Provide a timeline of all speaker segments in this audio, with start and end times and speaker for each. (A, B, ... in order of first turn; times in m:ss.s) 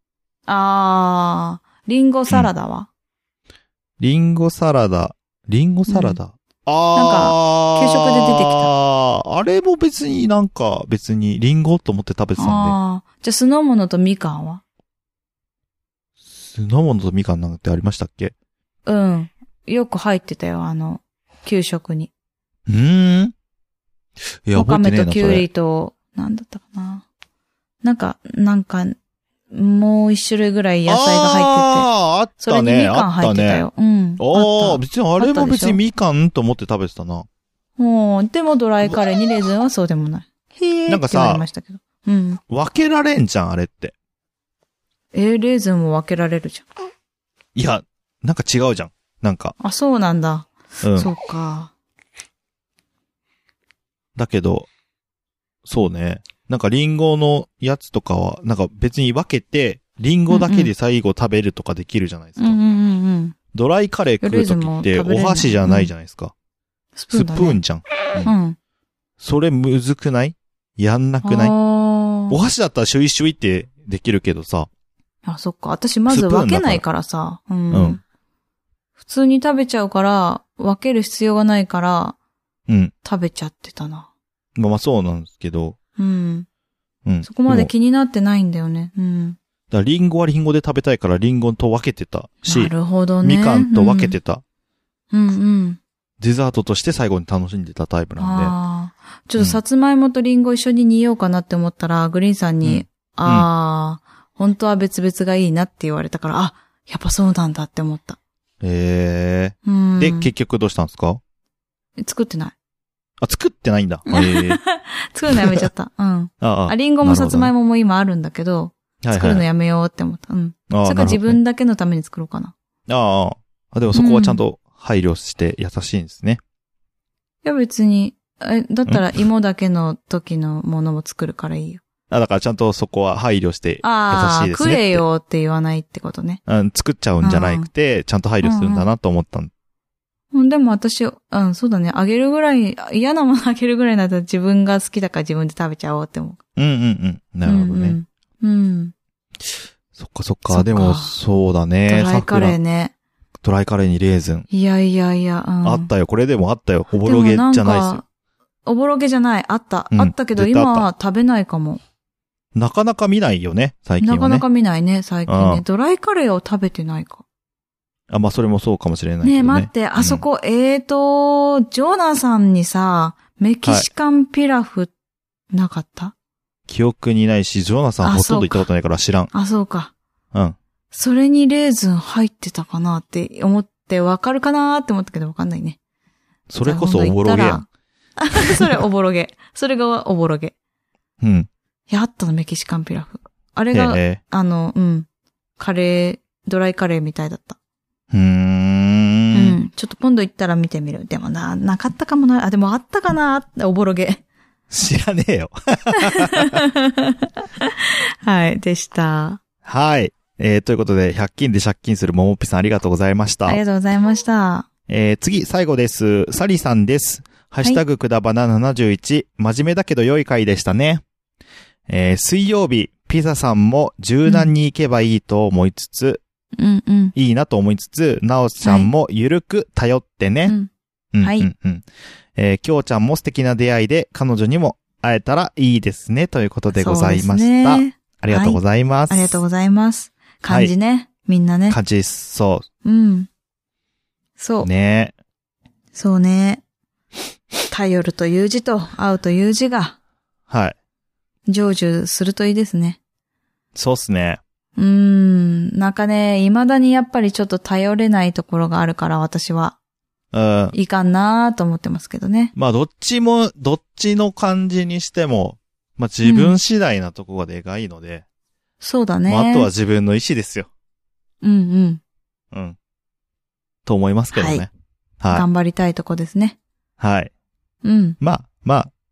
0:00.5-0:02.9 A
0:04.0-0:12.8 B
0:05.9-0:06.2 A
0:06.9-0:08.7 A
0:12.4-0:14.6 A
0:16.2-0:18.3 B
0:18.8-0:22.1 A
0:22.7-0:23.3 B
0:24.4-0:25.5 B
0:24.5-0:27.0 A
0:27.8-0:29.0 A
0:29.5-0:31.9 A
0:30.9-0:33.7 B
0:32.4-0:35.8 A
0:34.2-0:37.3 B
0:37.8-0:42.4 A
0:40.9-0:41.4 B
0:42.5-0:43.9 B
0:45.1-0:46.6 A
0:47.5-0:49.5 B
0:49.6-0:51.7 A
0:50.8-0:51.1 B
0:54.2-0:54.7 B
0:55.6-1:02.6 B
1:00.3-1:00.7 A
1:02.4-1:03.4 A
1:03.5-1:06.3 B
1:04.2-1:05.9 A
1:07.0-1:07.6 A
1:07.1-1:08.3 B
1:08.2-1:08.6 A
1:09.2-1:11.5 B
1:11.2-1:12.4 A
1:12.3-1:14.7 B
1:15.2-1:18.0 A
1:16.1-1:16.8 B
1:17.7-1:18.0 B
1:19.0-1:22.2 A
1:22.7-1:22.9 B
1:23.0-1:24.1 A
1:24.6-1:25.8 B
1:26.0-1:26.5 A
1:27.0-1:27.7 B
1:27.2-1:29.4 A
1:29.7-1:34.4 B
1:32.4-1:34.2 A
1:35.1-1:35.8 A
1:36.2-1:38.5 B
1:38.2-1:48.2 A
1:42.6-1:43.5 B
1:48.6-1:51.2 B
1:49.6-1:50.3 A
1:52.0-1:52.5 A
1:53.2-1:54.6 B
1:54.1-2:02.5 A
1:55.3-1:55.6 B
1:56.4-1:57.5 B
1:59.0-1:59.4 B
2:00.7-2:01.4 B
2:02.9-2:06.4 B
2:03.9-2:04.4 A
2:07.4-2:11.8 A
2:12.1-2:15.0 B
2:13.8-2:16.4 A
2:16.5-2:19.5 B
2:17.2-2:17.7 A
2:18.4-2:18.9 A
2:20.3-2:26.4 A
2:26.6-2:28.0 B
2:27.4-2:28.9 A
2:29.9-2:32.6 B
2:30.5-2:31.1 A
2:31.9-2:32.9 A
2:33.4-2:34.5 B
2:34.5-2:35.9 A
2:35.6-2:38.0 B
2:37.0-2:38.0 A
2:38.6-2:41.8 A
2:39.9-2:40.9 B
2:42.5-2:44.4 B
2:44.0-2:47.2 A
2:45.3-2:45.6 B
2:48.1-2:50.2 B
2:49.2-2:54.9 A
2:55.5-2:56.1 A
2:56.7-2:59.3 B
2:58.0-2:58.7 A
2:59.3-2:59.9 A
3:00.9-3:05.8 A
3:06.5-3:07.6 B
3:06.6-3:07.6 A
3:08.2-3:10.5 A
3:08.4-3:08.8 B
3:11.2-3:11.5 B
3:11.9-3:15.1 A
3:13.7-3:14.2 B
3:15.6-3:17.6 A
3:18.1-3:19.6 B
3:19.3-3:24.2 A
3:24.7-3:26.6 B
3:26.0-3:29.4 A
3:29.6-3:33.6 B
3:33.4-3:34.7 A
3:34.9-3:41.0 B
3:41.9-3:46.2 B
3:46.6-3:47.1 A
3:47.1-3:50.5 B
3:48.6-3:48.9 A
3:51.1-3:51.8 B
3:51.2-3:51.5 A
3:52.4-3:59.4 B
3:56.7-4:01.8 A
4:00.5-4:00.7 B
4:01.7-4:02.6 B
4:02.8-4:03.3 A
4:04.4-4:04.7 A
4:04.6-4:05.1 B
4:05.9-4:06.6 A
4:07.7-4:10.0 A
4:10.5-4:10.8 B
4:11.5-4:13.0 A
4:13.7-4:14.4 B
4:14.8-4:19.8 A
4:20.3-4:20.7 B
4:20.7-4:22.5 A
4:22.6-4:28.2 B
4:26.2-4:26.6 A
4:28.8-4:29.7 A
4:29.3-4:30.7 B
4:31.4-4:32.0 A
4:32.5-4:32.8 B
4:33.8-4:34.7 B
4:34.3-4:34.6 A
4:35.2-4:35.4 B
4:35.3-4:36.6 A
4:37.0-4:37.3 B
4:37.8-4:38.2 A
4:38.2-4:38.9 B